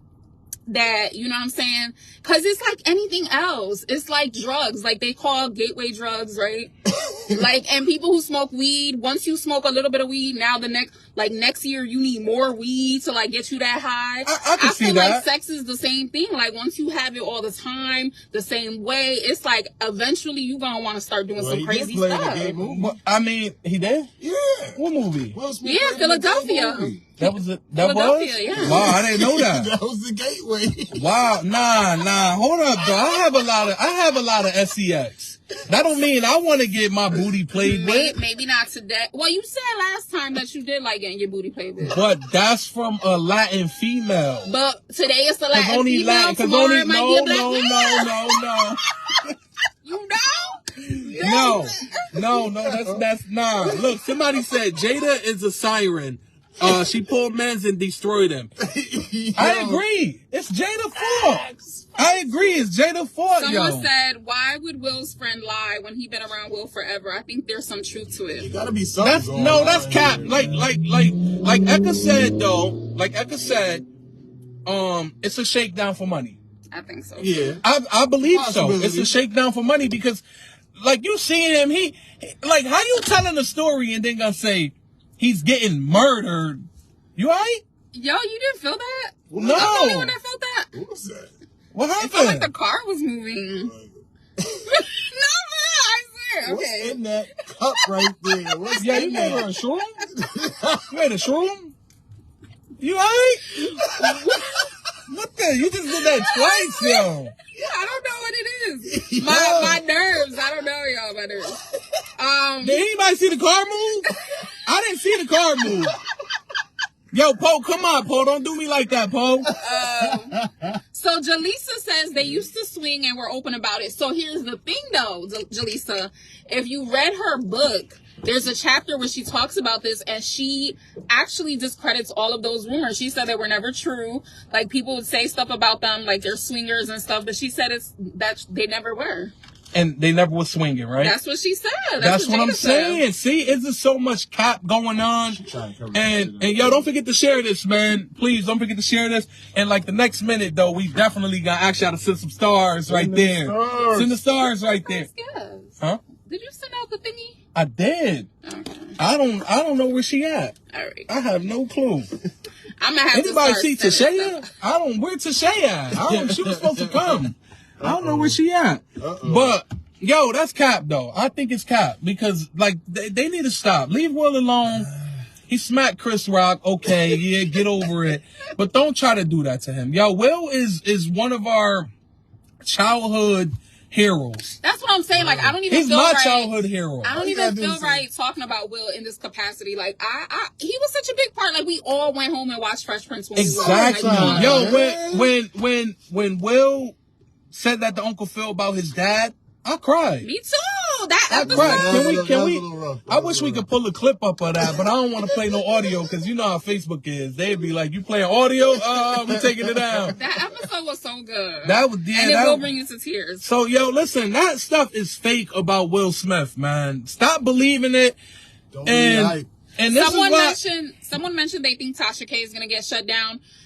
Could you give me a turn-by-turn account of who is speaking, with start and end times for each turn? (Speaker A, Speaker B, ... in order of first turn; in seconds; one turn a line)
Speaker A: 0.7-6.7
Speaker A: 7.3-22.6
Speaker B: 14.2-15.2
Speaker C: 21.4-23.0
Speaker B: 22.6-24.1
Speaker C: 24.2-24.8
Speaker B: 24.8-25.4
Speaker C: 25.3-27.1
Speaker A: 25.6-28.9
Speaker B: 27.2-29.7
Speaker C: 28.5-31.2
Speaker B: 30.9-38.2
Speaker A: 37.6-42.0
Speaker B: 41.9-44.5
Speaker A: 44.5-48.3
Speaker B: 45.5-49.3
Speaker A: 49.8-52.2
Speaker C: 51.0-53.0
Speaker B: 51.1-58.5
Speaker C: 53.6-54.4
Speaker C: 58.6-59.8
Speaker B: 59.4-63.9
Speaker C: 61.1-61.9
Speaker A: 62.0-62.6
Speaker A: 63.4-68.5
Speaker C: 68.4-70.7
Speaker B: 69.0-73.8
Speaker B: 74.7-76.4
Speaker A: 76.7-77.5
Speaker C: 77.2-77.6
Speaker B: 77.6-80.2
Speaker C: 78.2-79.2
Speaker B: 80.8-87.6
Speaker A: 87.9-90.7
Speaker C: 89.3-89.9
Speaker B: 89.4-90.2
Speaker C: 90.7-91.3
Speaker B: 91.7-92.5
Speaker A: 92.0-93.7
Speaker C: 93.7-94.8
Speaker A: 94.7-97.0
Speaker C: 96.4-99.5
Speaker A: 97.8-99.5
Speaker B: 98.8-100.0
Speaker C: 100.0-100.9
Speaker B: 100.8-101.7
Speaker B: 102.8-103.5
Speaker A: 103.5-104.7
Speaker C: 104.2-104.4
Speaker B: 105.1-107.3
Speaker A: 105.9-111.6
Speaker C: 108.9-109.8
Speaker B: 109.3-109.6
Speaker A: 112.2-112.8
Speaker B: 112.6-114.1
Speaker B: 114.7-116.0
Speaker B: 117.1-119.5
Speaker A: 119.6-120.4
Speaker A: 120.9-139.3
Speaker B: 139.7-141.2
Speaker A: 141.0-143.0
Speaker B: 142.0-145.4
Speaker C: 145.3-146.9
Speaker B: 145.9-155.1
Speaker C: 152.9-154.1
Speaker A: 154.4-157.4
Speaker B: 157.6-158.3
Speaker A: 158.4-159.0
Speaker B: 159.0-160.6
Speaker A: 160.7-161.1
Speaker B: 161.1-162.1
Speaker A: 162.8-164.4
Speaker B: 163.1-174.9
Speaker C: 166.1-167.3
Speaker C: 167.8-168.4
Speaker C: 169.0-169.6
Speaker B: 175.5-181.9
Speaker B: 182.6-184.6
Speaker A: 184.6-194.7
Speaker C: 185.1-185.6
Speaker B: 185.7-187.2
Speaker C: 187.1-188.1
Speaker B: 193.3-197.0
Speaker C: 193.4-195.3
Speaker B: 197.5-200.3
Speaker A: 200.2-202.0
Speaker B: 201.3-210.2
Speaker C: 201.4-203.7
Speaker C: 204.7-206.1
Speaker C: 208.9-210.2
Speaker A: 210.2-213.4
Speaker B: 211.6-212.7
Speaker B: 213.4-218.2
Speaker C: 218.7-219.5
Speaker B: 218.8-220.6
Speaker A: 219.9-223.4